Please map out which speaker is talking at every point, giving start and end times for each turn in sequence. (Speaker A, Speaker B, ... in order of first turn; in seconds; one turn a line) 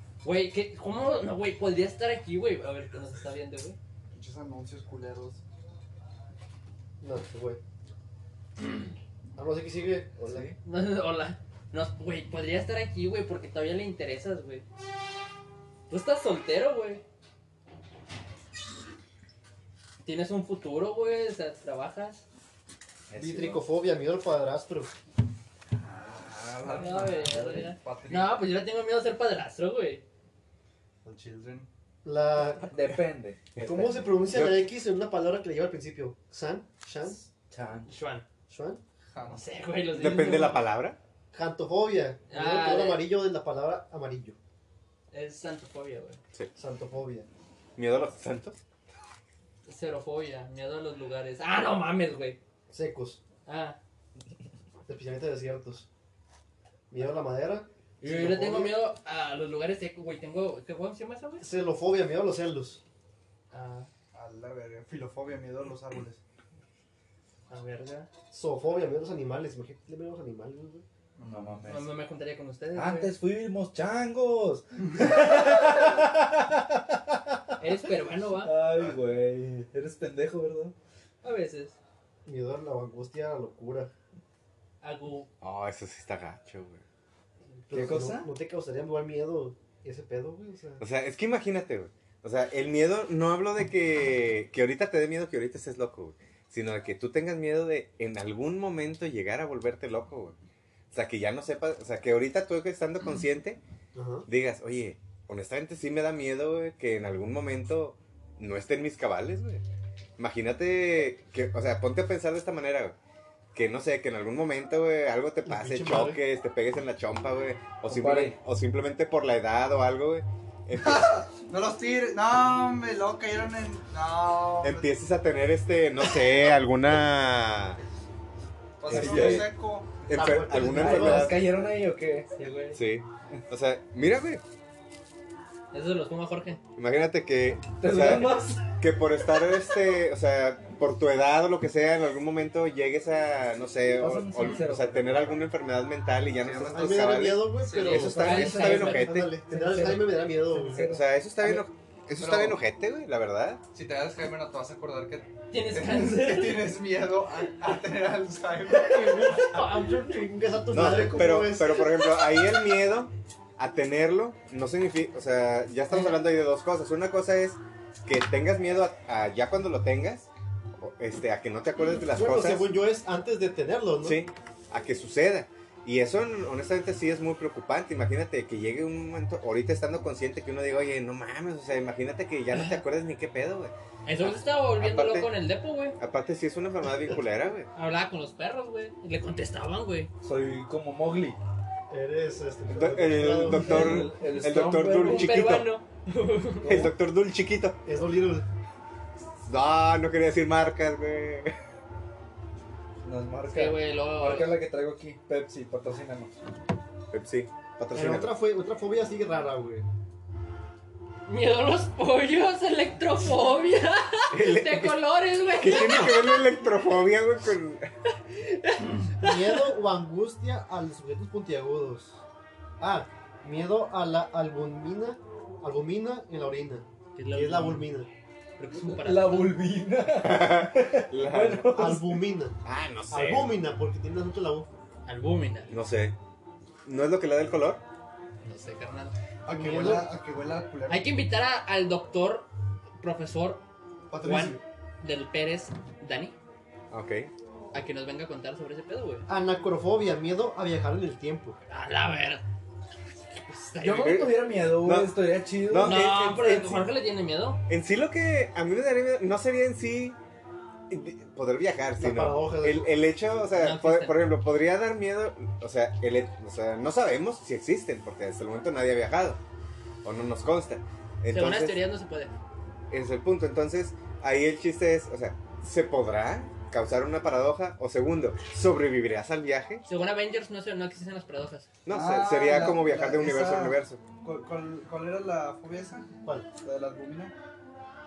Speaker A: 0.2-3.8
Speaker B: 4.1-5.4
Speaker C: 7.0-7.6
Speaker C: 9.4-10.5
Speaker D: 10.2-10.6
Speaker A: 10.6-14.7
Speaker A: 15.9-17.0
Speaker A: 20.0-22.2
Speaker D: 23.1-23.6
Speaker C: 23.2-24.9
Speaker D: 25.8-28.4
Speaker A: 26.7-30.1
Speaker B: 26.8-27.1
Speaker B: 31.1-31.7
Speaker C: 32.0-32.8
Speaker D: 32.7-34.0
Speaker E: 33.6-34.7
Speaker C: 33.6-37.3
Speaker D: 37.5-37.9
Speaker A: 37.9-38.2
Speaker C: 38.5-38.8
Speaker B: 39.1-39.4
Speaker A: 39.3-40.7
Speaker E: 39.9-41.0
Speaker C: 41.3-44.4
Speaker A: 42.3-43.1
Speaker A: 45.1-46.2
Speaker C: 46.6-47.3
Speaker E: 47.8-48.6
Speaker A: 49.7-52.4
Speaker C: 52.7-53.2
Speaker A: 53.5-53.8
Speaker C: 54.9-55.9
Speaker C: 56.9-58.8
Speaker A: 58.0-61.5
Speaker C: 61.4-62.8
Speaker A: 63.5-63.9
Speaker B: 64.1-66.2
Speaker A: 67.5-68.1
Speaker C: 68.3-70.8
Speaker B: 71.2-71.6
Speaker D: 71.2-71.9
Speaker A: 71.7-73.1
Speaker D: 72.8-80.8
Speaker A: 77.6-78.5
Speaker A: 81.2-81.8
Speaker C: 82.2-83.9
Speaker A: 84.8-85.3
Speaker E: 85.4-86.8
Speaker C: 87.7-90.8
Speaker D: 87.7-88.3
Speaker E: 90.8-100.4
Speaker E: 100.9-103.6
Speaker C: 104.0-104.3
Speaker E: 104.3-109.6
Speaker E: 110.2-113.0
Speaker E: 113.5-121.2
Speaker C: 115.5-116.2
Speaker D: 117.9-118.4
Speaker B: 120.8-124.9
Speaker E: 124.6-127.8
Speaker B: 128.8-129.9
Speaker D: 128.9-129.5
Speaker E: 128.9-129.5
Speaker D: 130.1-132.3
Speaker E: 130.1-131.5
Speaker C: 130.1-131.4
Speaker A: 132.3-132.8
Speaker E: 132.7-134.4
Speaker A: 135.7-136.6
Speaker E: 136.8-149.4
Speaker D: 137.8-138.7
Speaker D: 144.0-145.4
Speaker B: 146.4-147.0
Speaker C: 146.7-150.9
Speaker B: 147.6-148.0
Speaker A: 147.8-149.3
Speaker D: 149.4-151.7
Speaker E: 150.8-153.6
Speaker B: 152.2-152.6
Speaker B: 153.7-159.7
Speaker A: 155.5-156.7
Speaker C: 158.8-162.1
Speaker A: 159.5-160.3
Speaker E: 160.7-170.3
Speaker E: 170.8-172.7
Speaker C: 172.1-174.2
Speaker E: 174.0-185.3
Speaker A: 182.5-182.8
Speaker A: 184.1-186.0
Speaker E: 186.0-187.7
Speaker A: 187.8-190.1
Speaker D: 190.2-191.4
Speaker C: 191.9-194.1
Speaker E: 192.7-195.7
Speaker D: 193.5-195.4
Speaker A: 195.0-196.9
Speaker E: 196.6-197.8
Speaker C: 197.9-198.5
Speaker E: 199.4-201.5
Speaker D: 203.0-206.4
Speaker A: 203.5-204.5
Speaker E: 207.1-208.3
Speaker C: 207.9-209.9
Speaker A: 211.3-216.5
Speaker E: 214.3-217.9
Speaker A: 218.3-219.6
Speaker C: 219.2-222.2
Speaker C: 222.8-228.1
Speaker A: 227.2-227.9
Speaker A: 228.6-229.6
Speaker D: 228.7-232.2
Speaker E: 230.2-232.0
Speaker C: 231.7-232.6
Speaker E: 232.6-233.6
Speaker C: 233.1-234.7
Speaker A: 235.1-235.8
Speaker E: 235.7-236.2
Speaker E: 236.8-237.8
Speaker A: 238.4-239.2
Speaker B: 239.5-241.1
Speaker C: 239.5-240.1
Speaker A: 240.9-242.5
Speaker A: 243.0-243.6
Speaker B: 244.1-244.6
Speaker A: 244.2-246.4
Speaker E: 246.9-247.3
Speaker A: 247.7-249.3
Speaker C: 249.3-251.6
Speaker A: 251.7-252.4
Speaker A: 253.4-254.3
Speaker D: 253.8-256.0
Speaker E: 254.1-256.9
Speaker A: 255.8-257.6
Speaker E: 257.7-260.2
Speaker E: 260.9-269.4
Speaker C: 262.0-262.9
Speaker A: 263.5-264.2
Speaker E: 270.0-271.8
Speaker A: 271.3-272.3
Speaker E: 272.9-279.8
Speaker A: 279.9-281.7
Speaker E: 281.9-284.0
Speaker B: 281.9-287.3